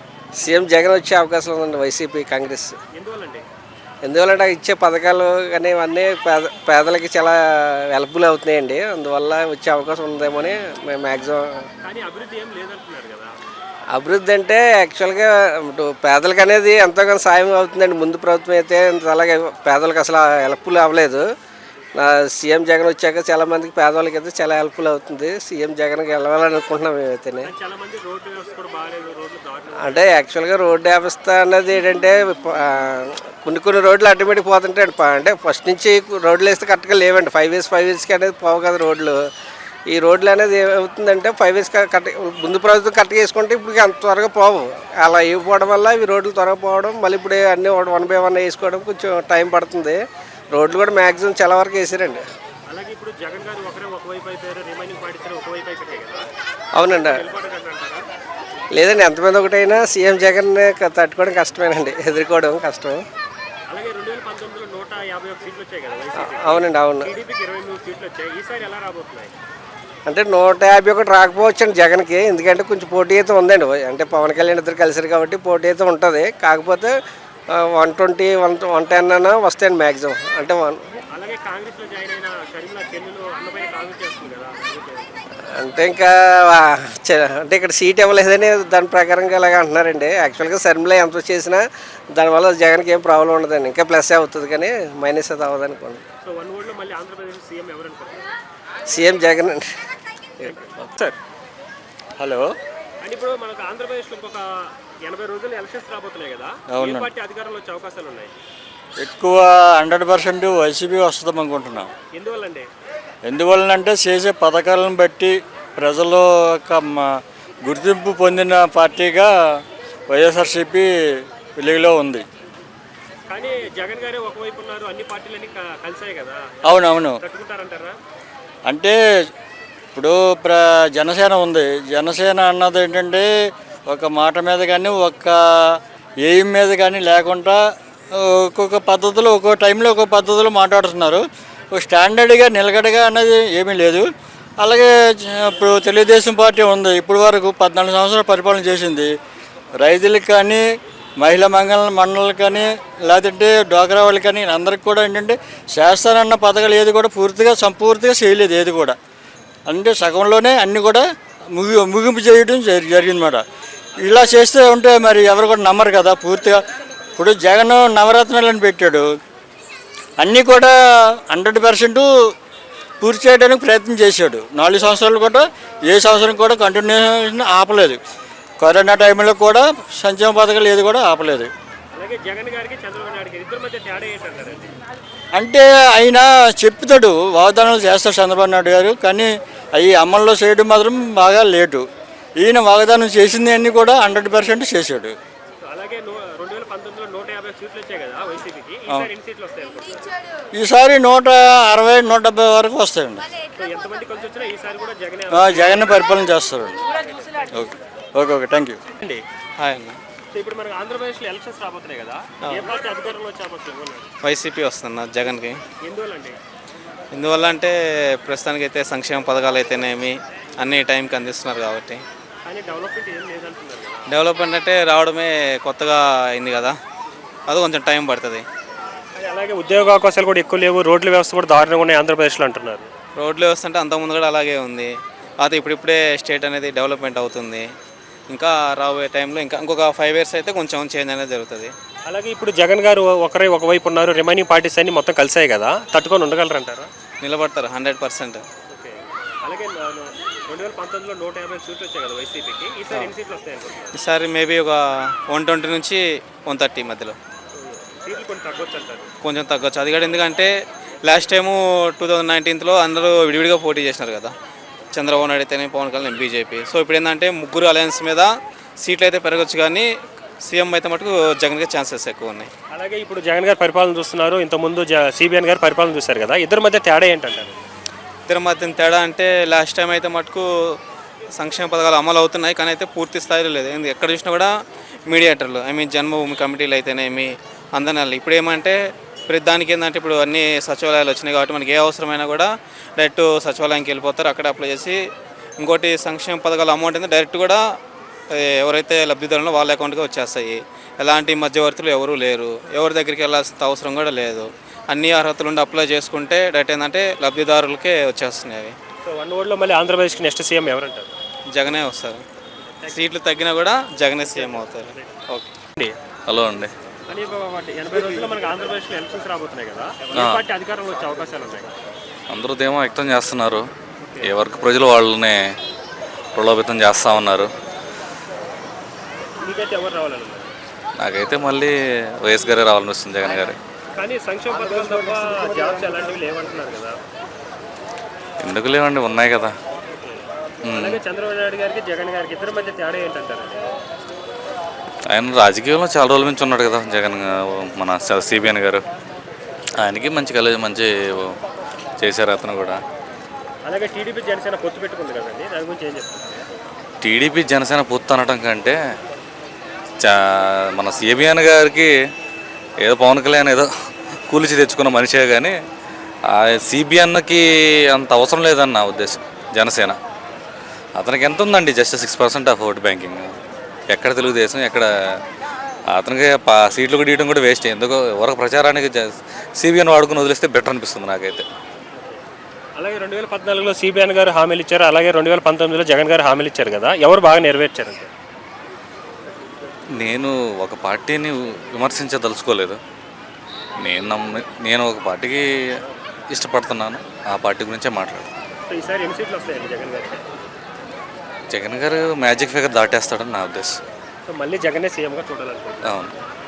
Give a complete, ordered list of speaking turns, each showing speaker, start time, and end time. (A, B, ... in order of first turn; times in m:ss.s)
0:00.4-0:02.8 A
0:02.9-0:03.5 B
0:04.0-0:11.6 A
0:11.8-0:13.4 B
0:13.9-0:21.2 A
0:22.0-0:27.5 A
0:27.4-0:30.1 B
0:29.8-0:39.2 A
0:39.9-0:50.0 A
0:50.5-0:52.2 A
0:52.7-0:56.3 B
0:56.7-0:57.2 A
0:57.0-0:58.1 B
0:58.7-1:03.0 A
1:03.7-1:09.3 B
1:06.2-1:07.1 A
1:10.1-1:17.0 A
1:17.5-1:20.8 A
1:21.1-1:25.2 B
1:25.6-1:36.0 A
1:36.2-1:38.3 B
1:38.9-1:39.7 A
1:40.4-1:41.2 B
1:42.2-1:42.5 C
1:43.0-1:44.5 B
1:45.0-1:48.4 B
1:46.7-1:47.1 C
1:49.0-1:51.9 C
1:52.1-1:52.7 B
1:53.2-1:59.3 C
2:00.1-2:02.2 C
2:03.3-2:08.0 B
2:06.6-2:07.2 C
2:08.7-2:09.0 C
2:10.0-2:13.3 C
2:13.9-2:17.6 C
2:18.1-2:24.1 C
2:24.6-2:29.1 C
2:29.8-2:30.6 C
2:31.2-2:39.0 C
2:39.7-2:43.4 C
2:44.0-2:46.6 C
2:47.2-2:49.1 C
2:50.2-2:52.1 C
2:53.0-2:58.0 C
2:58.6-3:01.5 C
3:01.9-3:04.8 B
3:05.4-3:11.9 C
3:12.4-3:15.2 C
3:15.6-3:20.1 B
3:20.6-3:23.3 C
3:23.6-3:26.2 B
3:25.3-3:26.8 C
3:27.0-3:27.5 B
3:27.5-3:28.8 C
3:29.0-3:29.2 B
3:29.6-3:30.0 D
3:30.3-3:34.1 B
3:34.2-3:35.6 D
3:35.8-3:36.4 B
3:37.1-3:42.0 D
3:42.5-3:44.1 B
3:44.1-3:46.7 D
3:47.5-3:48.4 D
3:49.2-3:52.9 B
3:53.2-3:57.7 D
3:58.3-4:01.7 D
4:02.1-4:06.9 B
4:07.2-4:08.4 D
4:08.7-4:14.0 B
4:14.0-4:17.2 D
4:17.5-4:19.1 B
4:19.2-4:20.5 D
4:21.0-4:24.3 D
4:24.9-4:29.9 D
4:30.4-4:32.5 D
4:32.7-4:37.7 B
4:38.3-4:40.5 D
4:41.4-4:44.5 D
4:45.1-4:48.8 D
4:49.3-4:55.0 D
4:55.6-4:57.6 D
4:58.3-5:08.8 D
5:09.0-5:11.2 B
5:11.5-5:12.2 D
5:12.7-5:13.0 B
5:12.9-5:15.5 D
5:14.3-5:16.0 B
5:16.3-5:16.7 E
5:17.1-5:21.7 B
5:20.2-5:20.4 E
5:22.3-5:23.6 E
5:24.0-5:24.4 B
5:24.2-5:25.4 E
5:26.4-5:27.5 E
5:29.4-5:30.5 B
5:31.0-5:31.7 E
5:32.2-5:33.6 E
5:34.0-5:37.0 B
5:38.4-5:39.5 E
5:39.9-5:43.6 B
5:40.7-5:41.0 E
5:45.1-5:48.8 E
5:49.8-5:51.3 E
5:52.0-5:52.8 E
5:53.6-5:56.4 B
5:57.0-5:58.8 E
6:00.8-6:01.9 E
6:02.8-6:03.7 E
6:04.3-6:05.5 E
6:06.3-6:10.0 E
6:11.0-6:13.3 E
6:13.9-6:14.9 E
6:15.9-6:21.4 E
6:22.8-6:28.1 B
6:30.0-6:32.8 E
6:33.8-6:35.4 E
6:36.3-6:38.3 E
6:38.7-6:40.2 B
6:41.5-6:43.8 E
6:44.3-6:45.9 B
6:45.9-6:46.1 E